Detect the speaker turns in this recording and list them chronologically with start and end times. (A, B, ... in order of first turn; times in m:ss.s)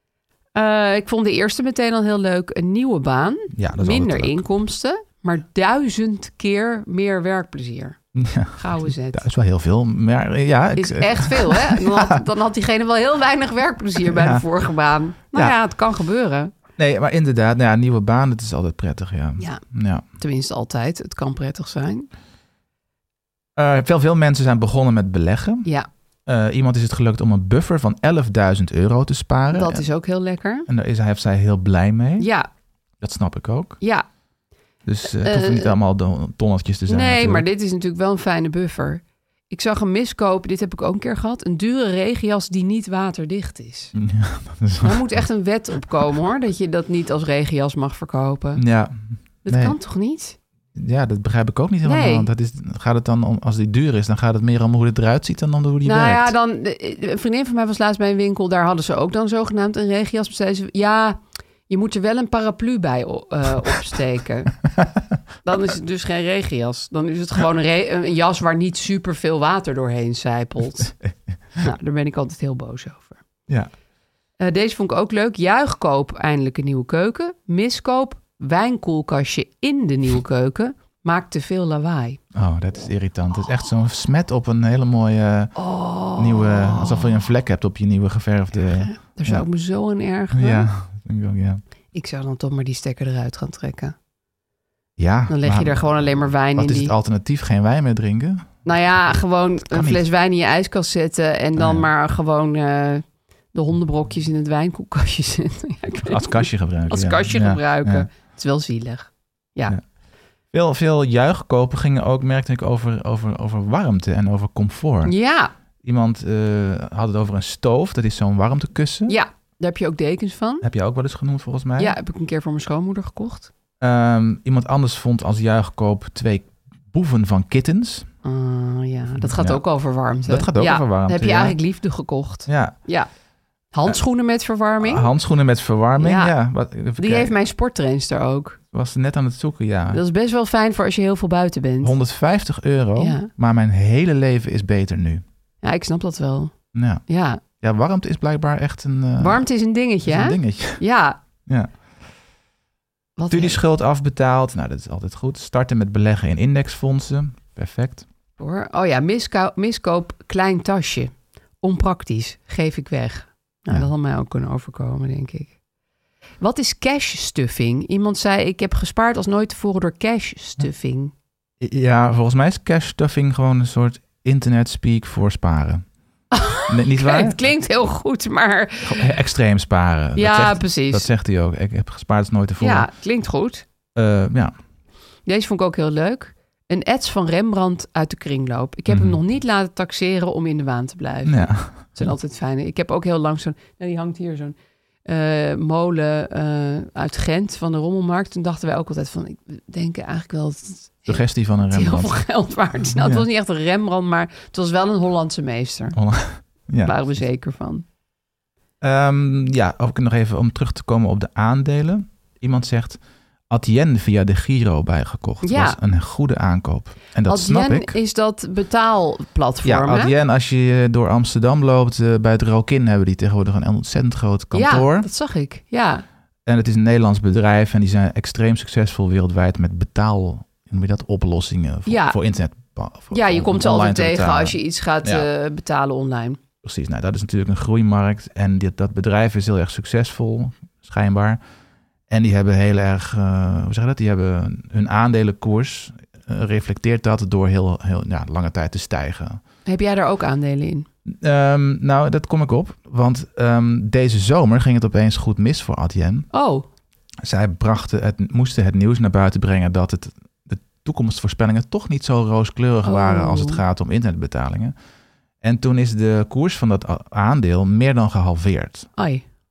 0:00.6-0:08.0 A
0:03.5-0:04.4 B
0:08.1-0:12.2 B
0:08.5-0:09.2 A
0:10.8-0:16.5 A
0:14.0-0:14.4 B
0:16.8-0:20.0 B
0:20.2-0:22.1 A
0:23.6-0:25.7 B
0:26.2-0:29.8 B
0:29.5-0:30.7 A
0:30.7-0:32.3 B
0:32.2-0:32.5 A
0:33.0-0:33.8 B
0:34.8-0:37.4 B
0:35.2-0:35.7 A
0:36.9-0:43.9 A
0:43.9-0:45.0 B
0:44.8-0:48.6 A
0:48.6-0:49.8 B
0:49.4-0:50.4 A
0:50.7-0:56.3 B
0:51.8-0:52.3 A
0:55.8-1:04.6 A
1:05.4-1:10.9 A
1:11.6-1:13.2 A
1:14.4-1:22.2 A
1:22.3-1:25.5 B
1:25.5-1:27.2 A
1:26.2-1:29.4 B
1:28.7-1:30.7 A
1:30.3-1:31.6 B
1:31.9-1:33.9 A
1:35.0-1:38.6 B
1:35.3-1:36.9 A
1:38.6-1:49.8 A
1:39.6-1:40.0 B
1:41.6-1:41.9 B
1:46.0-1:48.1 B
1:50.5-1:55.1 B
1:55.0-1:55.5 A
1:55.8-1:59.2 B
1:59.1-2:00.6 A
2:00.6-2:02.0 B
2:01.8-2:03.5 A
2:03.8-2:08.1 B
2:08.2-2:13.1 A
2:09.2-2:09.6 B
2:10.2-2:11.6 B
2:12.4-2:12.8 B
2:13.7-2:15.1 A
2:14.8-2:17.3 B
2:16.0-2:16.3 A
2:16.9-2:18.6 A
2:18.7-2:20.0 B
2:19.9-2:22.0 A
2:21.8-2:25.2 B
2:23.0-2:23.3 A
2:25.6-2:26.5 A
2:26.7-2:27.0 B
2:27.0-2:27.4 A
2:27.5-2:29.4 B
2:29.2-2:31.2 A
2:30.0-2:30.8 B
2:31.4-2:31.8 B
2:33.2-2:33.6 A
2:33.3-2:38.0 B
2:38.4-2:45.5 A
2:46.4-2:51.1 A
2:51.6-2:55.8 B
2:56.3-2:59.0 A
2:56.7-2:57.4 B
2:58.8-3:02.9 B
3:00.2-3:01.1 A
3:02.6-3:03.6 A
3:03.9-3:04.5 B
3:05.2-3:26.0 A
3:08.9-3:09.2 B
3:11.2-3:12.1 B
3:21.1-3:22.2 B
3:22.9-3:23.2 B
3:25.9-3:27.1 B
3:26.8-3:27.8 A
3:28.8-3:33.0 B
3:33.5-3:38.0 B
3:35.4-3:35.8 A
3:37.2-3:40.1 A
3:39.6-3:45.1 B
3:44.5-3:46.0 A
3:46.4-3:55.3 B
3:51.8-3:52.2 A
3:53.1-3:56.4 A
3:56.6-4:01.4 B
4:02.1-4:09.4 B
4:09.6-4:10.9 A
4:11.1-4:16.3 B
4:16.3-4:16.6 A
4:17.2-4:24.7 B
4:22.8-4:23.6 A
4:25.4-4:28.9 B
4:29.0-4:29.2 A